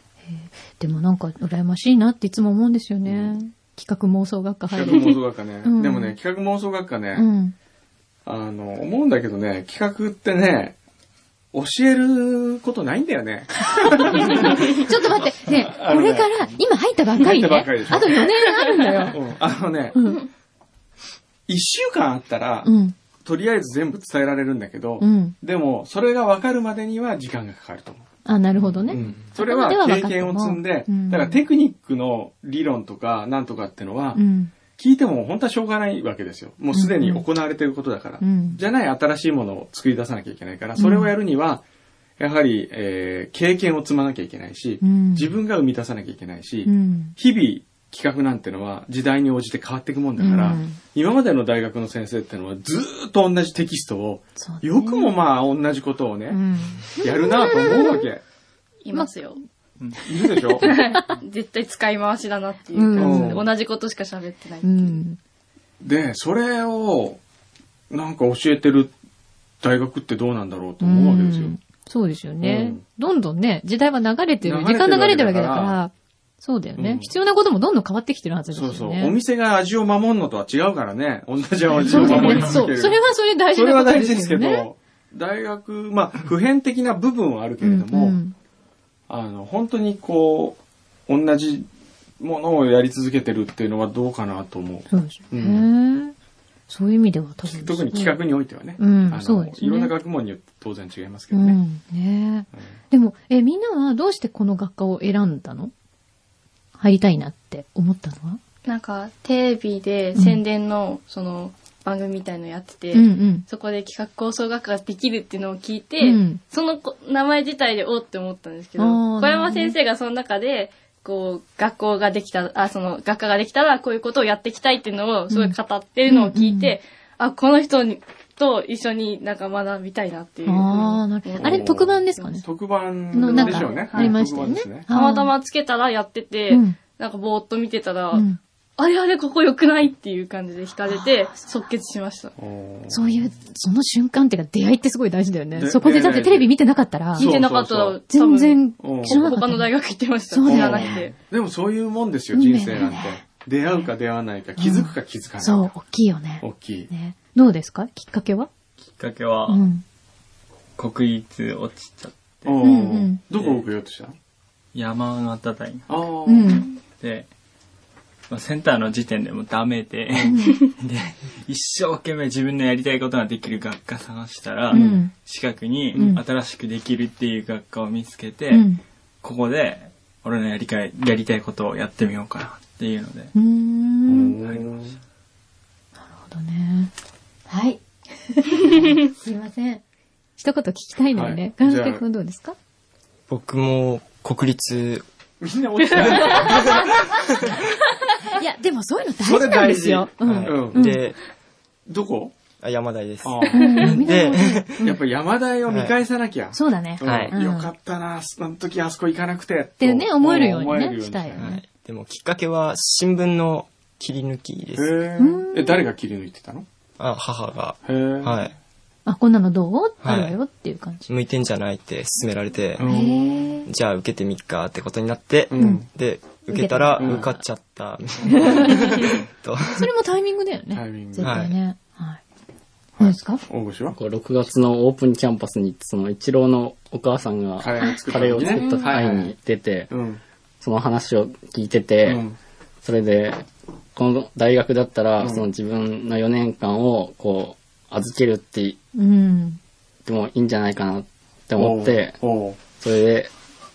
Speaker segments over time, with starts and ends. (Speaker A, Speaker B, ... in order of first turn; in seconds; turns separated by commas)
Speaker A: 0.3-6.2, Speaker B: 3.0-3.4, Speaker B: 4.8-7.3, Speaker A: 7.2-7.5, Speaker B: 8.2-10.8, Speaker B: 11.5-14.8, Speaker A: 13.8-19.2, Speaker B: 15.5-16.6, Speaker B: 17.2-18.1, Speaker B: 19.1-20.0, Speaker A: 19.9-20.2, Speaker B: 21.5-28.0, Speaker A: 22.6-22.9, Speaker A: 25.0-25.4, Speaker A: 28.2-31.4, Speaker B: 28.6-34.2, Speaker A: 34.1-34.5, Speaker B: 34.8-41.6, Speaker A: 36.7-37.2, Speaker A: 38.2-38.6, Speaker A: 40.8-41.1, Speaker B: 42.2-58.2, Speaker A: 44.8-45.3, Speaker A: 46.6-47.1, Speaker A: 50.2-50.8, Speaker A: 54.4-55.2, Speaker A: 56.3-58.1, Speaker C: 58.8-59.4, Speaker B: 60.1-60.7, Speaker A: 60.3-61.1, Speaker C: 60.6-65.0, Speaker A: 62.7-63.4, Speaker B: 63.0-63.5, Speaker A: 64.6-65.2, Speaker B: 65.8-67.2, Speaker B: 67.9-68.9, Speaker B: 69.6-71.6, Speaker A: 70.8-79.2, Speaker B: 72.4-72.8, Speaker B: 74.4-75.8, Speaker B: 76.8-77.1, Speaker B: 78.5-88.2, Speaker D: 81.8-82.6, Speaker A: 81.8-84.7, Speaker A: 87.6-88.3, Speaker B: 89.1-91.7, Speaker B: 92.2-95.7, Speaker A: 94.9-96.1, Speaker A: 96.7-98.2, Speaker B: 97.5-101.6, Speaker A: 98.8-99.9, Speaker A: 101.3-105.7, Speaker A: 106.8-108.4, Speaker C: 108.7-132.4, Speaker A: 110.2-110.4, Speaker A: 112.9-113.5, Speaker A: 116.0-116.4, Speaker A: 118.8-119.8, Speaker A: 125.3-126.8, Speaker A: 130.5-132.4, Speaker B: 131.4-134.9, Speaker A: 133.1-135.3, Speaker C: 133.2-134.1, Speaker C: 134.9-138.3, Speaker A: 136.5-136.8, Speaker A: 138.1-138.4, Speaker C: 138.8-142.3, Speaker A: 140.9-141.6, Speaker B: 142.4-143.1, Speaker A: 142.9-147.3, Speaker B: 145.5-146.5, Speaker C: 147.2-151.2, Speaker B: 147.2-148.0, Speaker A: 148.1-149.7, Speaker B: 148.8-149.3, Speaker A: 150.3-151.1, Speaker B: 150.5-155.7, Speaker A: 152.3-153.2, Speaker A: 154.6-158.5, Speaker B: 156.4-156.9, Speaker D: 158.8-159.7, Speaker A: 159.5-159.8, Speaker D: 160.8-162.6, Speaker B: 162.4-164.2, Speaker A: 162.6-163.2, Speaker D: 163.4-163.6, Speaker D: 164.7-165.9, Speaker B: 165.9-166.6, Speaker A: 166.3-166.7, Speaker D: 167.0-167.3, Speaker D: 168.3-178.7, Speaker A: 170.3-170.6, Speaker A: 174.7-175.1, Speaker B: 174.7-175.0, Speaker A: 175.9-176.2, Speaker A: 178.5-178.8, Speaker D: 179.2-183.3, Speaker A: 183.3-184.4, Speaker B: 184.1-185.0, Speaker A: 186.0-186.9, Speaker A: 187.5-189.8, Speaker A: 190.4-192.6, Speaker B: 191.1-192.1, Speaker E: 193.3-195.0, Speaker B: 195.4-197.6, Speaker C: 196.1-196.6, Speaker A: 196.3-196.6, Speaker A: 198.2-201.0, Speaker B: 199.2-200.9, Speaker E: 200.2-201.2, Speaker B: 201.9-202.3, Speaker E: 202.6-204.9, Speaker B: 203.2-204.1, Speaker A: 203.5-205.0, Speaker B: 204.8-211.6, Speaker E: 205.7-205.9, Speaker A: 206.5-207.7, Speaker E: 207.0-207.3, Speaker A: 209.8-211.6, Speaker E: 211.3-214.9, Speaker B: 214.8-216.7, Speaker A: 215.2-215.9, Speaker E: 217.0-218.5, Speaker B: 217.8-218.4, Speaker A: 219.1-221.1, Speaker E: 220.0-220.4, Speaker E: 221.1-222.9, Speaker B: 222.8-223.5, Speaker A: 222.9-223.7, Speaker E: 223.7-229.9, Speaker B: 225.5-225.9, Speaker A: 225.6-225.8, Speaker A: 226.5-227.4, Speaker B: 227.0-227.3, Speaker A: 228.2-228.9, Speaker A: 229.7-232.2, Speaker B: 230.7-231.4, Speaker E: 231.2-231.6, Speaker B: 233.0-234.0, Speaker A: 233.0-233.4, Speaker F: 233.9-239.9, Speaker B: 237.6-239.3, Speaker C: 238.5-239.0, Speaker B: 239.9-240.2, Speaker F: 240.6-242.2, Speaker B: 242.1-242.4, Speaker F: 242.8-248.8, Speaker B: 245.2-245.5, Speaker A: 249.0-249.6, Speaker F: 250.1-252.2, Speaker B: 251.6-252.6, Speaker F: 252.8-253.3